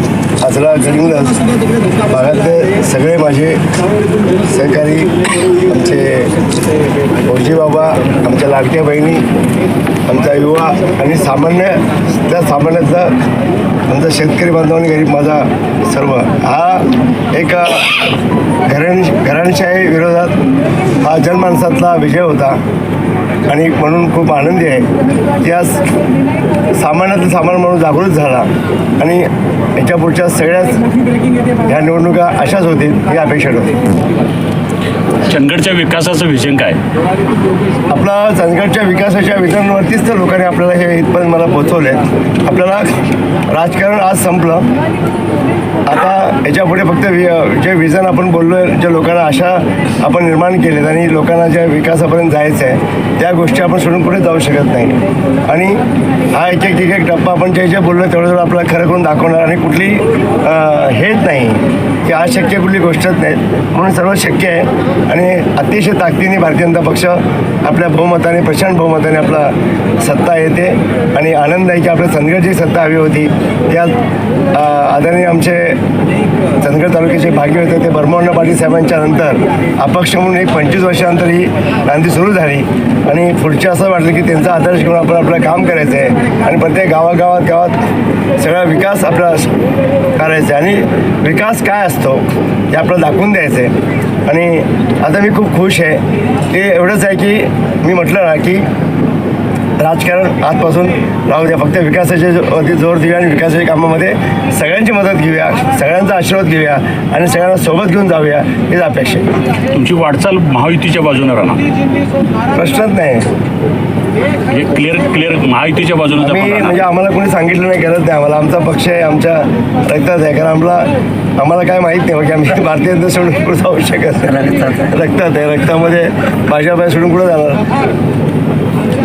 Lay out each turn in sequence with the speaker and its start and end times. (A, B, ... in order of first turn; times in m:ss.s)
0:00.4-0:01.4 A
0:02.1-0:03.6 A
0:04.4-0:06.3 A
0:07.2-0:09.2 A
0:10.1-0:13.2 A
0:13.9-0:18.0 A
0:18.7-0:20.4 A
0:21.0-0:22.6 A
0:23.5-0:25.9 A
0:26.7-0:30.9 A
0:31.6-0:33.8 A
0:35.2-0:36.8 B
0:37.9-0:42.9 A
0:43.5-0:44.7 A
0:45.9-1:14.0 A
1:14.5-1:15.8 A
1:16.6-1:27.8 A
1:28.4-1:29.5 A
1:30.1-1:33.7 A
1:34.2-1:38.6 A
1:39.8-1:49.3 A
1:49.7-1:51.6 B
1:52.5-1:53.2 A
1:54.5-1:56.8 B
1:56.2-2:07.6 A